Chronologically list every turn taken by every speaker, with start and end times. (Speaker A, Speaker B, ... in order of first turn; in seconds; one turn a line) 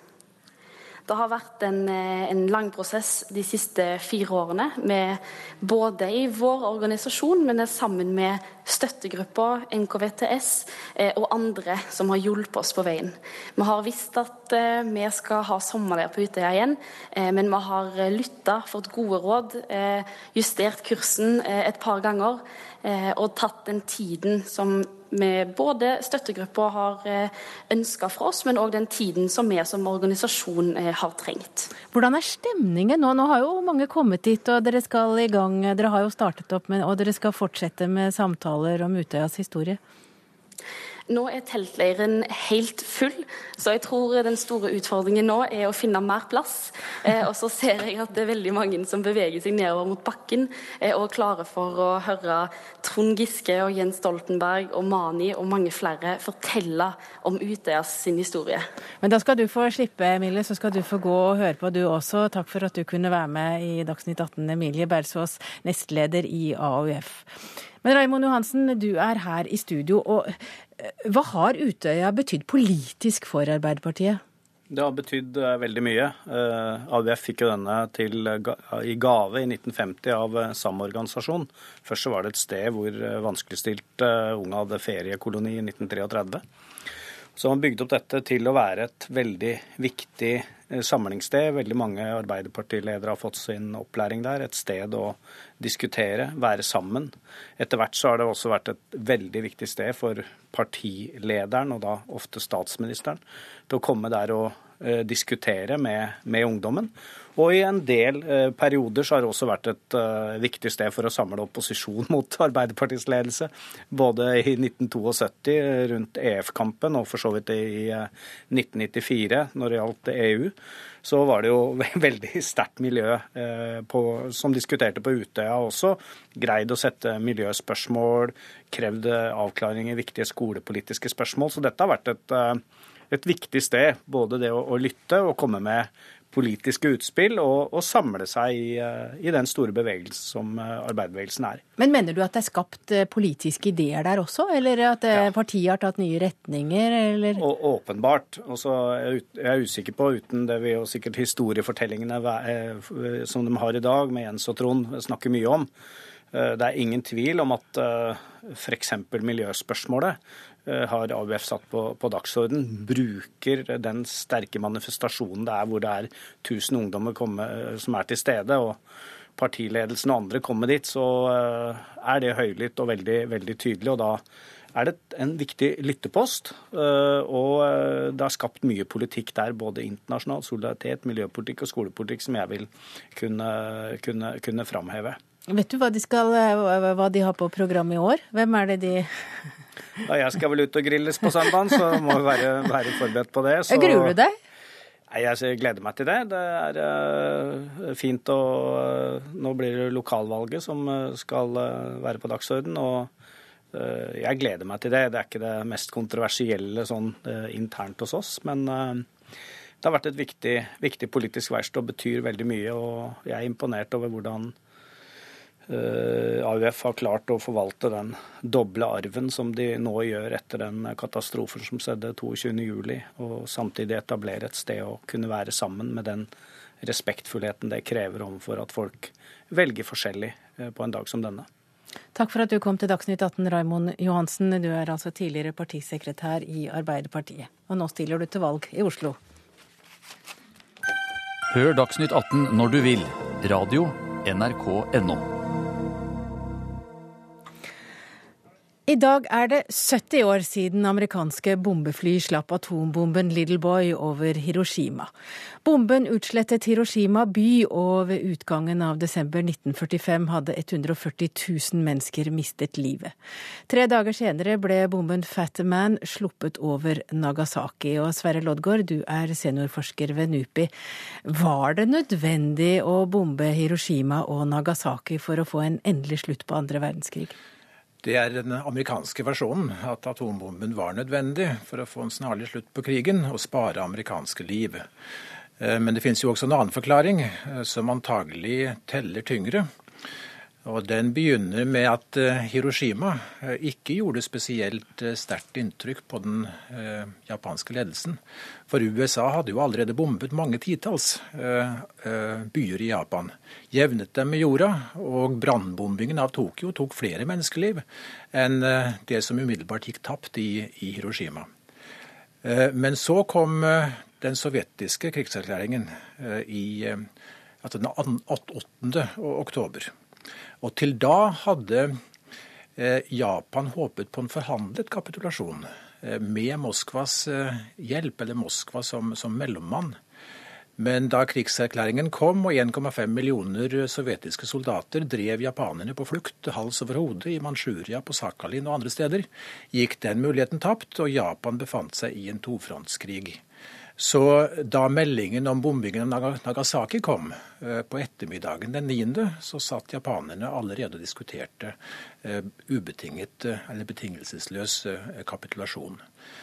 Speaker A: 1.1-31.7
Speaker B: 31.9-39.8
Speaker A: 41.1-58.6
Speaker B: 59.0-67.3
Speaker B: 67.8-74.2
Speaker C: 74.7-86.4
Speaker C: 87.4-141.6
Speaker B: 141.8-147.4
Speaker C: 147.4-155.7
Speaker C: 156.3-168.8
Speaker C: 169.4-174.2
Speaker C: 174.7-185.2
Speaker B: 185.5-189.1
Speaker C: 190.1-194.2
Speaker B: 193.7-194.4
Speaker C: 195.1-203.1
Speaker C: 203.7-209.1
Speaker C: 209.8-214.5
Speaker C: 215.7-226.3
Speaker C: 226.8-231.5
Speaker B: 232.2-239.2
Speaker D: 241.5-245.3
Speaker B: 248.9-255.1
Speaker B: 255.7-263.1
Speaker B: 263.7-270.7
Speaker B: 271.2-277.4
Speaker E: 278.0-284.9
Speaker E: 285.6-289.7
Speaker E: 290.6-311.5
Speaker E: 312.4-317.1
Speaker E: 317.6-319.9
Speaker E: 320.6-322.0
Speaker E: 322.8-330.0
Speaker E: 330.8-343.4
Speaker E: 344.0-356.0